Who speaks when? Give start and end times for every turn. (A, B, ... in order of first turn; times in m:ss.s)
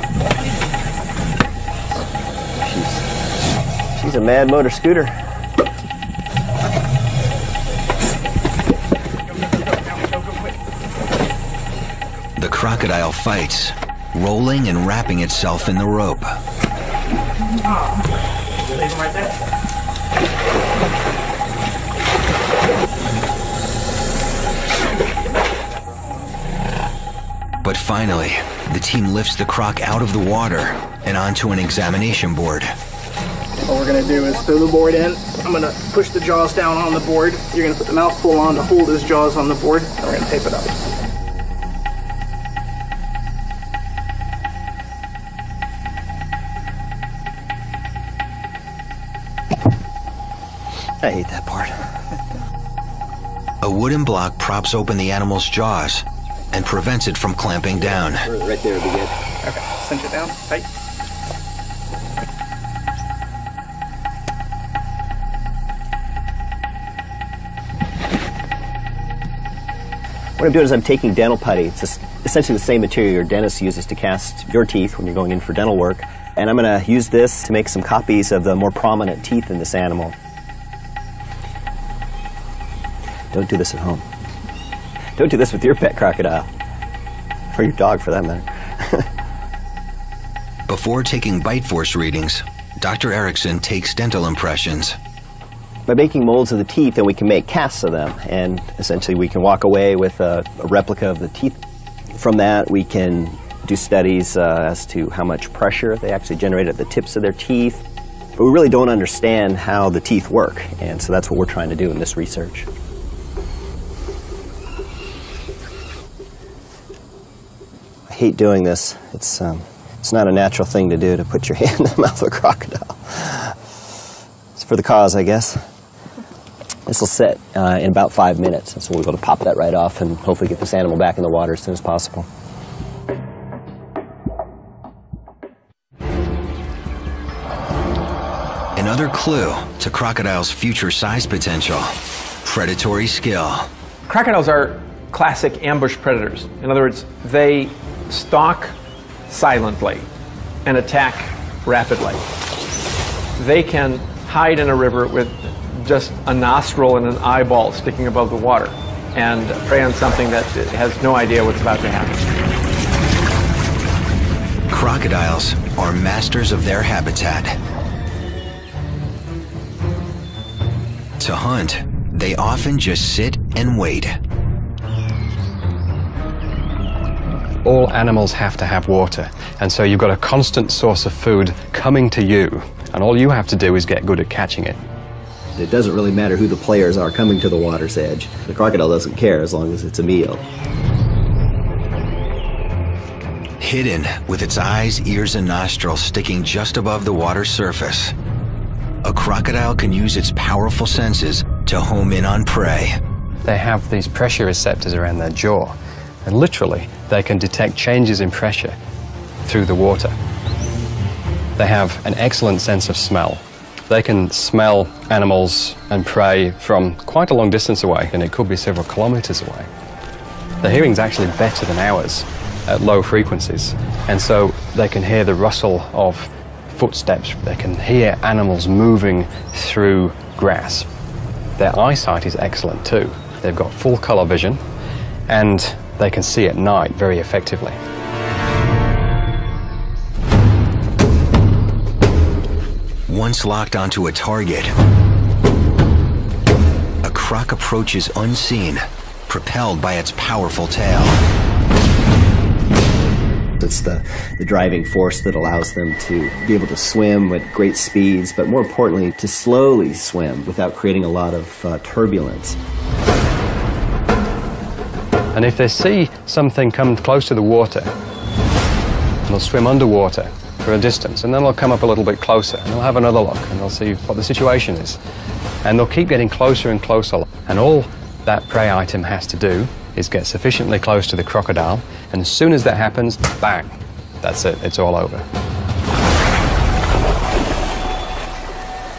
0:02.5-0:03.1 A
0:03.9-0:05.1 A
0:12.4-0:16.4 B
0:27.6-0:32.7 B
0:33.6-0:40.8 C
0:51.0-0:51.8 A
0:53.6-0:58.3 B
0:57.8-0:59.2 A
0:59.4-1:00.6 C
1:10.4-1:20.2 A
1:23.3-1:24.0 A
1:25.2-1:26.5 A
1:27.5-1:29.1 A
1:30.7-1:35.0 B
1:35.9-1:41.6 A
1:42.1-1:47.8 A
1:48.4-1:52.7 A
1:58.1-2:03.6 A
2:04.6-2:05.6 A
2:06.8-2:12.3 A
2:18.8-2:23.7 B
2:24.1-2:28.7 D
2:29.3-2:30.1 D
2:30.6-2:32.2 D
2:33.4-2:42.2 D
2:44.7-2:47.6 B
2:51.2-2:54.2 B
2:57.6-3:04.8 E
3:05.5-3:10.4 A
3:13.6-3:18.1 B
3:19.0-3:23.0 B
3:23.4-3:28.8 E
3:29.4-3:30.1 E
3:31.6-3:39.7 E
3:40.6-3:50.9 E
3:51.6-3:54.6 E
3:55.3-3:57.8 E
4:03.1-4:04.7 B
4:07.0-4:11.2 B
4:13.6-4:22.6 A
4:25.3-4:27.9 E
4:29.3-4:35.0 E
4:35.6-4:45.2 E